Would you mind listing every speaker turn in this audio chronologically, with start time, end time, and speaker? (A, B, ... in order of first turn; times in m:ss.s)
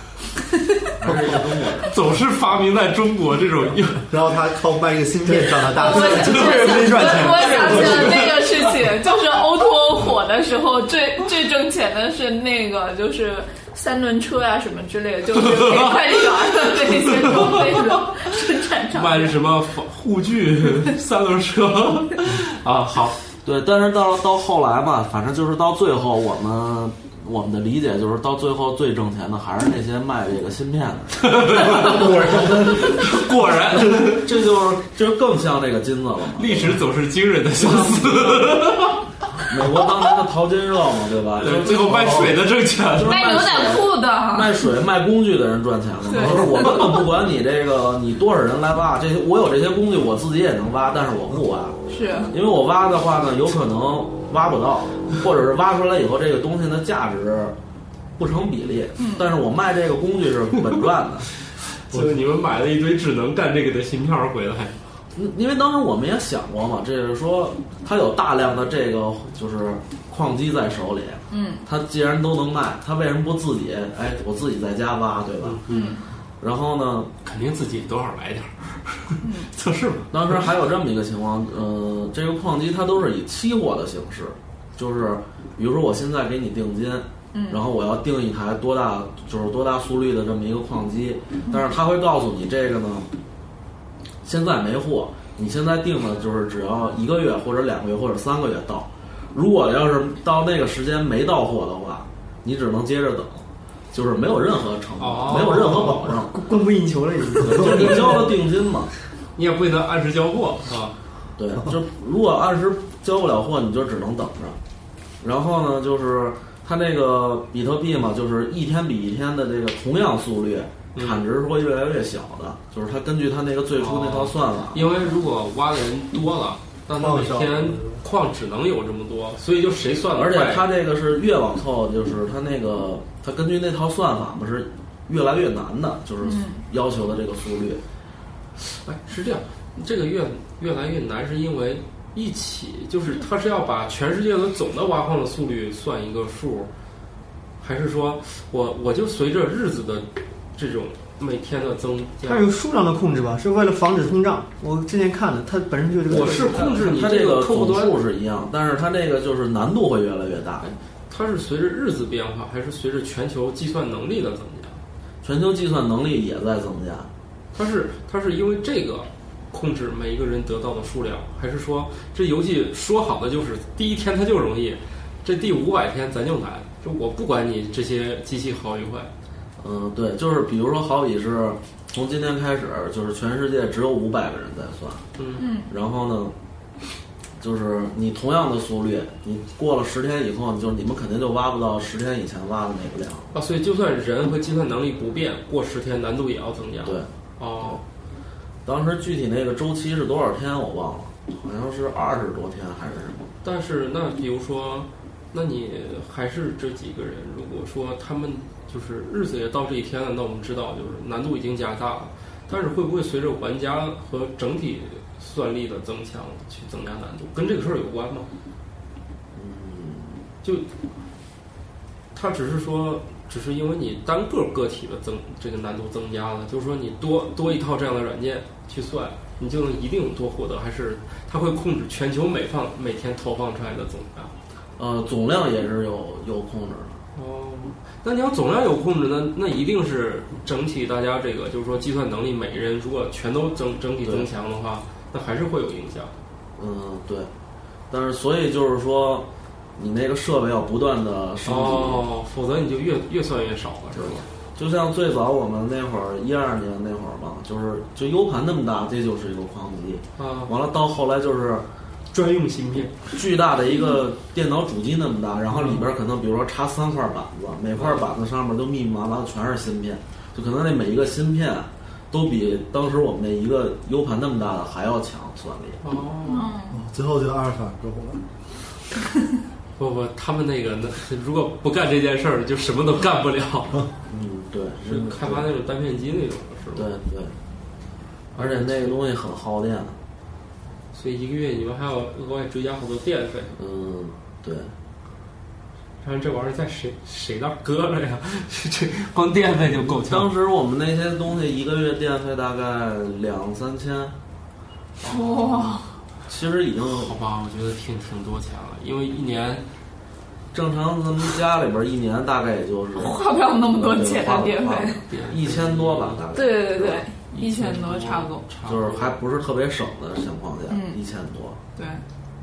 0:00.9-0:02.0 A
0:01.8-0:04.1 B
0:04.1-0:08.1 C
0:05.4-0:08.3 D
0:05.6-0:19.4 E
0:06.2-0:08.6 B
0:15.3-0:18.1 B
0:18.9-0:23.2 B
0:23.4-0:33.1 A
0:31.2-0:34.3 B
0:33.8-0:36.8 A
0:36.4-0:39.0 B
0:37.6-0:38.6 A
0:39.4-0:42.4 A
0:41.4-0:43.3 B
0:42.9-0:51.8 A
0:43.1-0:44.7 E
0:46.0-0:46.9 E
0:51.9-0:52.3 E
0:52.3-0:57.6 A
0:58.2-1:01.3 A
0:59.0-0:59.3 E
1:01.8-1:04.8 B
1:05.2-1:15.6 A
1:11.3-1:11.7 E
1:15.4-1:16.0 B
1:15.7-1:16.0 E
1:16.4-1:17.1 A
1:17.2-1:20.5 B
1:19.2-1:19.5 E
1:20.1-1:33.1 A
1:27.3-1:27.6 E
1:34.2-1:46.4 A
1:45.0-1:46.0 B
1:45.8-1:48.4 D
1:47.4-1:48.9 A
1:47.5-1:48.2 B
1:49.4-1:51.0 B
1:51.4-1:54.6 A
1:55.2-2:04.9 A
2:01.0-2:01.2 B
2:03.8-2:10.6 B
2:06.9-2:08.0 C
2:10.2-2:17.8 A
2:16.2-2:16.6 E
2:18.6-2:26.7 B
2:27.6-2:32.5 B
2:32.2-2:36.7 D
2:36.1-2:38.0 B
2:36.1-2:40.8 A
2:41.1-2:44.8 B
2:45.2-2:47.1 A
2:47.5-2:59.1 B
2:59.6-3:05.1 A
3:05.2-3:05.4 B
3:05.4-3:05.7 E
3:05.7-3:06.3 A
3:07.4-3:13.3 A
3:13.3-3:17.8 B
3:16.8-3:17.8 A
3:18.6-3:23.3 A
3:23.4-3:38.3 B
3:39.4-3:40.2 A
3:40.4-3:40.7 B
3:42.1-3:54.3 B
3:54.8-3:57.0 A
3:57.2-4:06.1 B
4:06.6-4:07.3 A
4:07.9-4:12.0 A
4:11.5-4:14.3 B
4:14.0-4:21.7 A
4:20.2-4:20.5 B
4:22.1-4:23.0 B
4:23.1-4:35.8 A
4:25.5-4:25.9 B
4:27.8-4:28.1 B
4:35.8-4:36.5 B
4:36.3-4:36.8 E
4:36.7-4:38.2 C
4:39.8-4:43.8 B
4:44.1-4:45.5 A
4:44.8-4:46.9 B
4:46.8-4:47.4 A
4:48.4-4:49.0 B
4:48.4-4:50.0 A
4:50.9-4:53.5 B
4:53.6-4:54.7 A
4:56.0-5:00.3 B
4:59.7-5:04.2 A
5:05.0-5:05.8 B
5:05.0-5:05.9 E
5:06.3-5:07.1 A
5:06.8-5:09.7 B
5:10.5-5:17.1 A
5:13.0-5:15.0 E
5:15.1-5:16.2 B
5:16.3-5:18.4 E
5:17.3-5:19.2 B
5:18.6-5:21.6 A
5:20.7-5:21.0 E
5:21.8-5:22.0 E